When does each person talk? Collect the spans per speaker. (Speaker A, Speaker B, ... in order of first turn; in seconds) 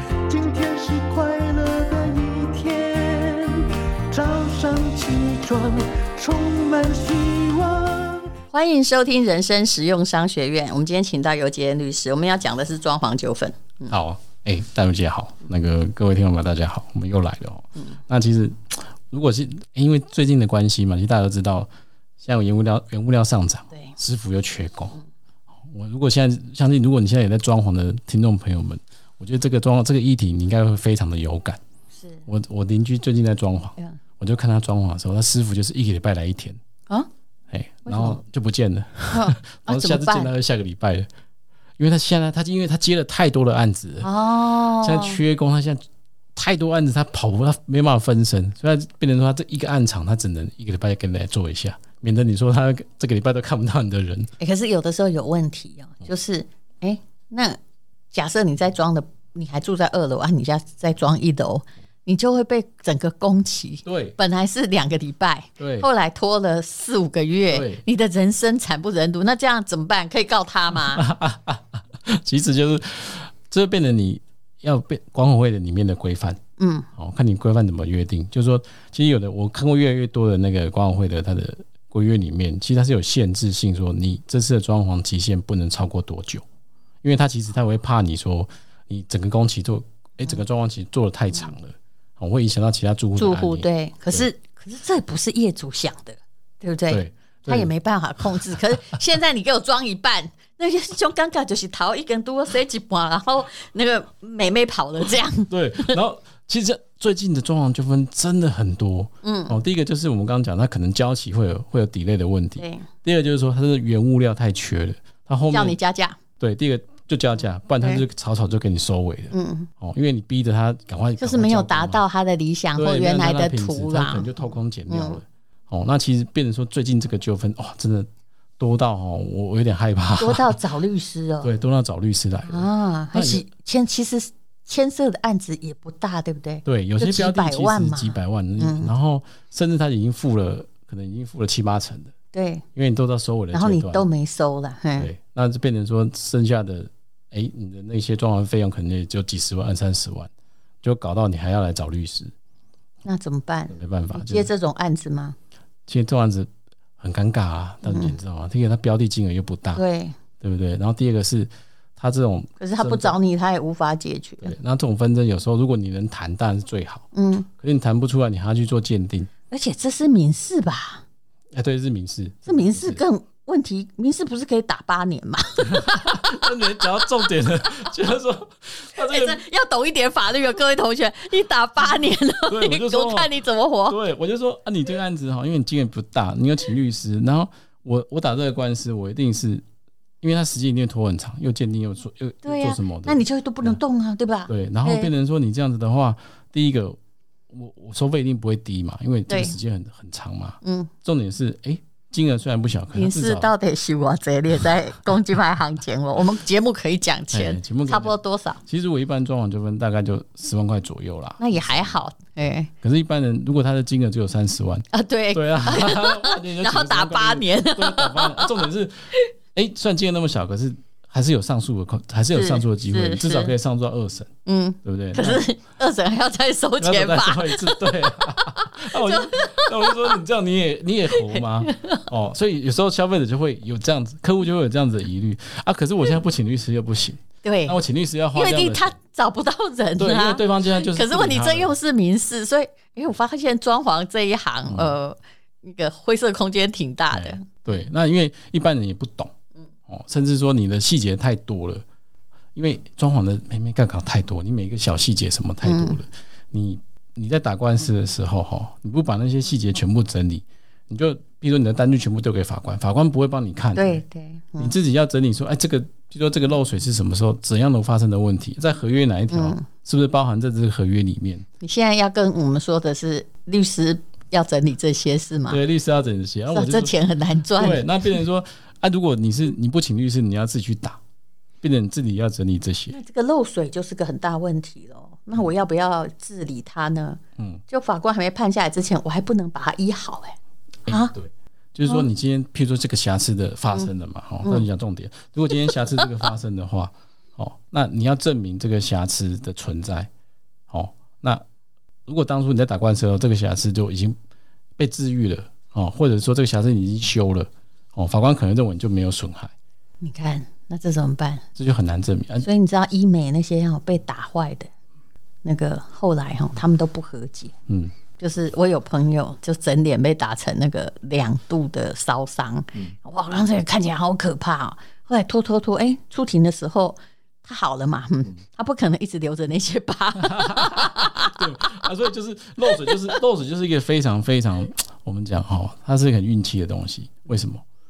Speaker A: 0.2-8.3
Speaker B: 8.5-13.9, 31.9-32.2, 37.9-38.2, 39.1-40.3, 44.0-45.2, 54.4-57.6, 58.1-71.0, 76.6-76.9, 93.2-106.0, 109.2-109.5, 112.6-112.9, 115.5-116.2, 119.3-119.7, 121.2-125.2, 130.2-131.5, 132.5-138.9, 142.3-142.7, 143.5-145.1, 153.1-155.4, 157.8-158.2, 159.7-160.2, 162.6-164.6, 167.1-167.5, 169.5-171.0, 172.5-176.6, 179.0-184.0, 192.4-195.1, 199.3-199.6, 200.6-200.9, 202.9-208.6, 211.4-212.7, 214.9-219.3, 222.3-223.5, 224.5-230.2, 231.2-232.1, 237.4-237.8, 238.3-247.7, 255.6-256.0, 263.8-264.7, 269.3-269.6, 271.6-275.6, 276.5-278.1, 282.9-291.1, 310.0-311.4, 312.4-314.7, 315.4-317.5, 318.2-331.4, 332.7-333.1
Speaker C: 13.9-21.7, 22.2-24.9, 25.7-31.6, 32.3-36.6, 37.5-41.1, 41.8-44.1, 44.8-54.3, 63.8-64.2, 65.6-65.9, 67.5-67.8, 70.7-76.4, 77.0-86.4, 87.0-94.3, 96.9-97.7, 98.2-98.7, 105.5-115.8, 116.4-122.0, 122.7-128.1, 128.6-130.6, 131.4-133.4, 136.7-142.1, 142.8-144.1, 144.9-150.3, 150.8-152.3, 153.7-154.5, 155.9-159.8, 160.4-163.2, 164.4-167.1, 167.6-169.3, 171.5-173.1, 175.6-179.4, 182.5-183.3, 183.9-189.6, 190.2-193.8, 194.5-197.0, 197.5-203.5, 207.3-212.0, 212.8-224.3, 224.8-225.5, 226.8-238.9, 240.0-241.7, 244.7-245.0, 247.1-249.3, 249.9-251.8, 252.6-264.0, 264.6-271.4, 275.5-276.9, 277.6-281.0, 281.6-283.0, 287.4-287.6, 290.9-300.1, 300.7-301.4, 302.1-304.2, 304.8-309.5, 311.6-312.5, 317.7-317.9, 330.2-337.6